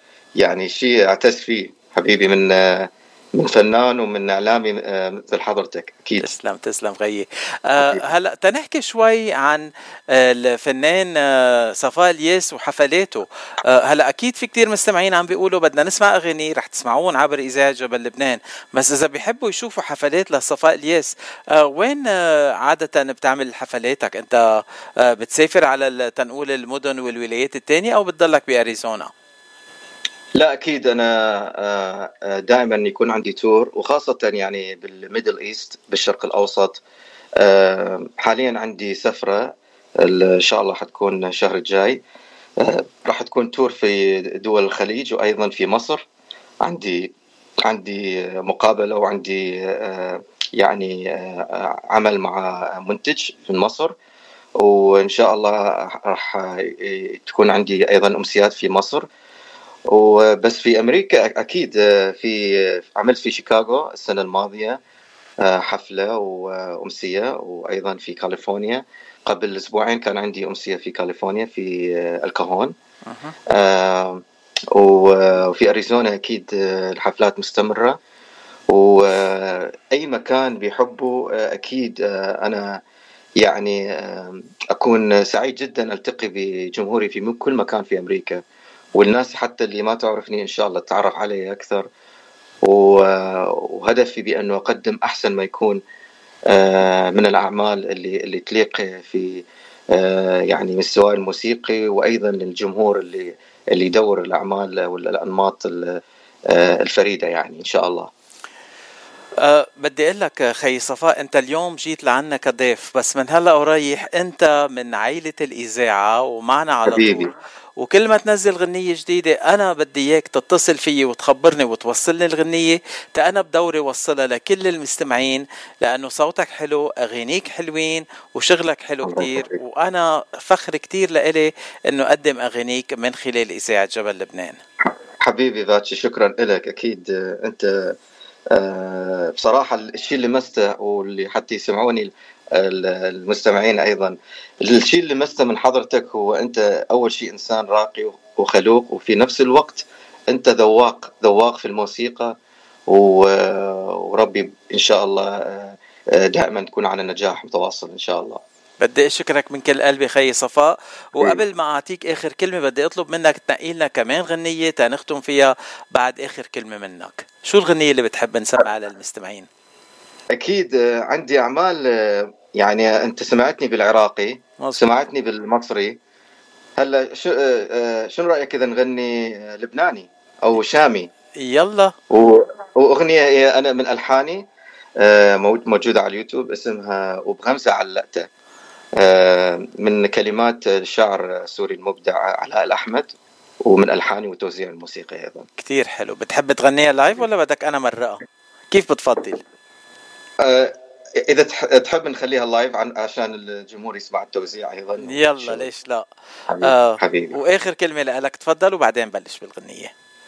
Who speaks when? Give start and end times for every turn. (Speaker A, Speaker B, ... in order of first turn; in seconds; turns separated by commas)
Speaker A: 0.4-6.3, Speaker B: 6.2-29.1, Speaker A: 30.4-36.8, Speaker A: 37.4-42.0, Speaker A: 42.6-46.0, Speaker A: 46.6-47.1, Speaker A: 47.7-53.9, Speaker A: 54.6-59.0, Speaker A: 59.9-64.8, Speaker A: 65.4-72.7, Speaker B: 73.1-73.3, Speaker A: 73.5-74.2, Speaker A: 74.7-78.0, Speaker A: 78.7-82.8, Speaker A: 83.4-88.4, Speaker A: 89.0-91.9, Speaker A: 92.6-95.8, Speaker A: 96.5-106.0, Speaker A: 106.5-108.1, Speaker B: 109.4-134.6, Speaker A: 116.9-117.3, Speaker A: 129.1-129.5, Speaker A: 135.2-137.9, Speaker A: 138.5-152.3, Speaker A: 152.9-158.4, Speaker B: 158.8-169.5, Speaker A: 170.3-176.0, Speaker B: 174.6-174.9, Speaker A: 176.8-181.1, Speaker B: 181.4-181.9, Speaker A: 182.1-184.4, Speaker A: 185.0-188.3, Speaker A: 189.0-193.1, Speaker A: 193.7-195.5, Speaker B: 195.6-199.4, Speaker A: 200.4-205.7, Speaker B: 205.0-206.1, Speaker A: 206.5-207.3, Speaker B: 206.6-209.9